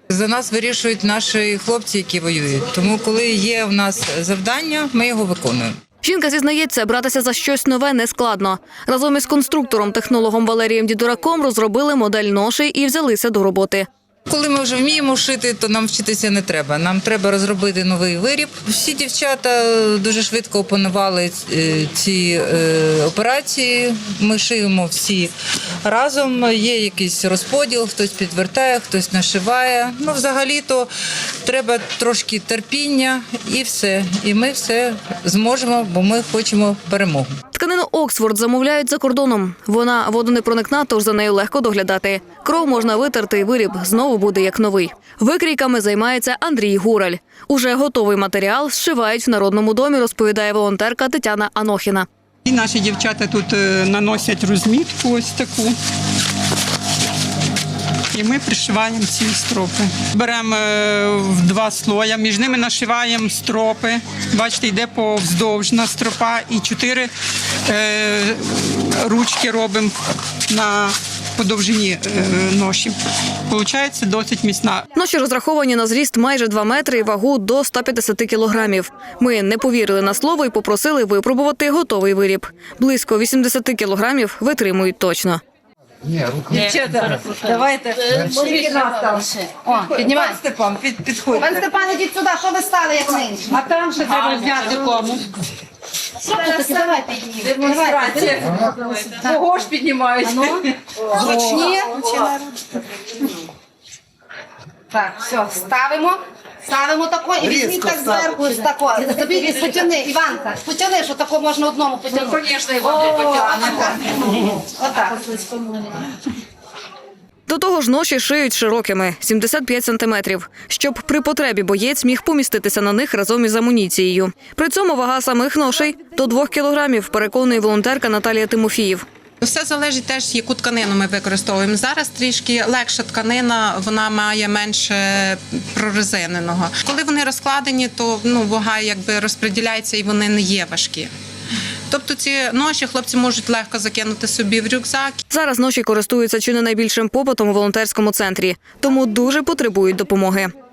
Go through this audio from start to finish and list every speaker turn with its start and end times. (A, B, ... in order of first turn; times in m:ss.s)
0:00.1-0:05.8 A
0:06.0-0:13.9 B
0:14.3-0:30.9 A
0:31.4-0:37.4 A
0:37.5-0:52.1 B
0:52.4-0:55.8 C
0:58.1-1:07.1 C
1:07.7-1:10.0 C
1:10.5-1:13.0 C
1:13.5-1:14.8 C
1:15.0-1:25.4 B
1:26.4-1:29.1 A
1:28.4-1:30.4 D
1:29.8-1:31.6 A
1:31.3-1:35.0 D
1:33.9-1:35.2 A
1:36.2-1:38.7 D
1:37.5-1:40.7 A
1:41.1-1:42.4 D
1:44.9-1:56.0 D
1:57.5-2:09.0 B
2:09.4-2:21.1 E
2:21.9-2:25.2 E
2:25.3-2:30.5 B